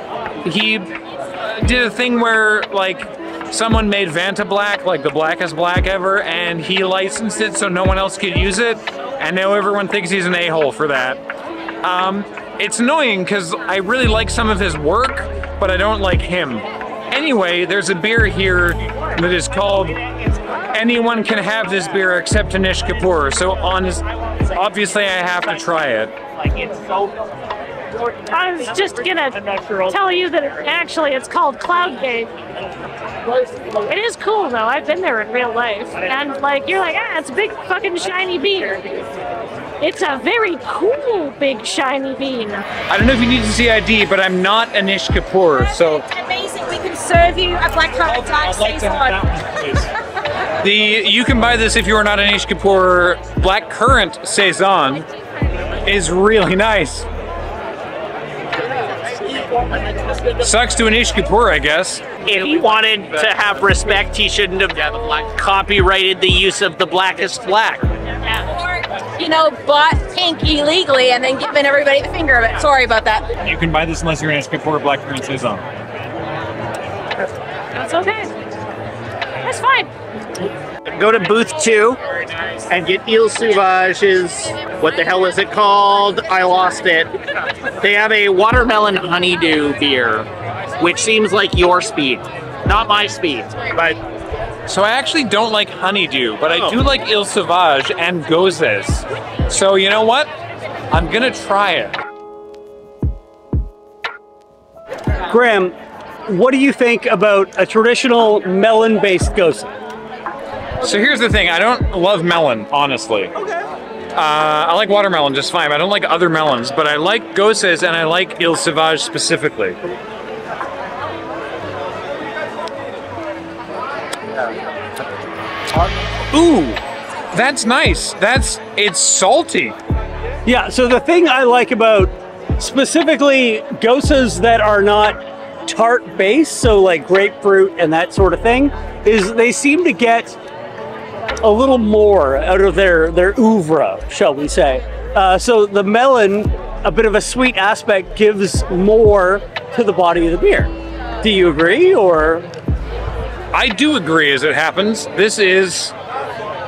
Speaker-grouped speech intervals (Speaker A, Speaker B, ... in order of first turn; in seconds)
Speaker A: 0.4-0.9, 1.4-11.2, 11.8-20.0, 20.7-26.1, 42.9-46.0, 48.4-49.3, 50.6-55.1, 55.8-57.1, 60.4-62.0, 73.4-75.7, 94.7-100.3, 100.9-102.0, 110.8-113.3, 114.1-119.8, 126.3-126.8, 127.3-129.8, 153.5-155.9
Speaker B: 26.3-27.3, 62.2-67.8, 80.9-82.0, 82.7-87.1, 87.8-90.3, 90.8-94.0, 96.5-96.8
Speaker C: 28.3-32.3, 33.8-39.0, 39.8-42.6, 77.7-78.3, 79.4-79.9
Speaker D: 46.1-49.5, 68.4-73.3
Speaker E: 105.3-105.7, 106.3-109.7, 130.4-140.4, 141.4-152.5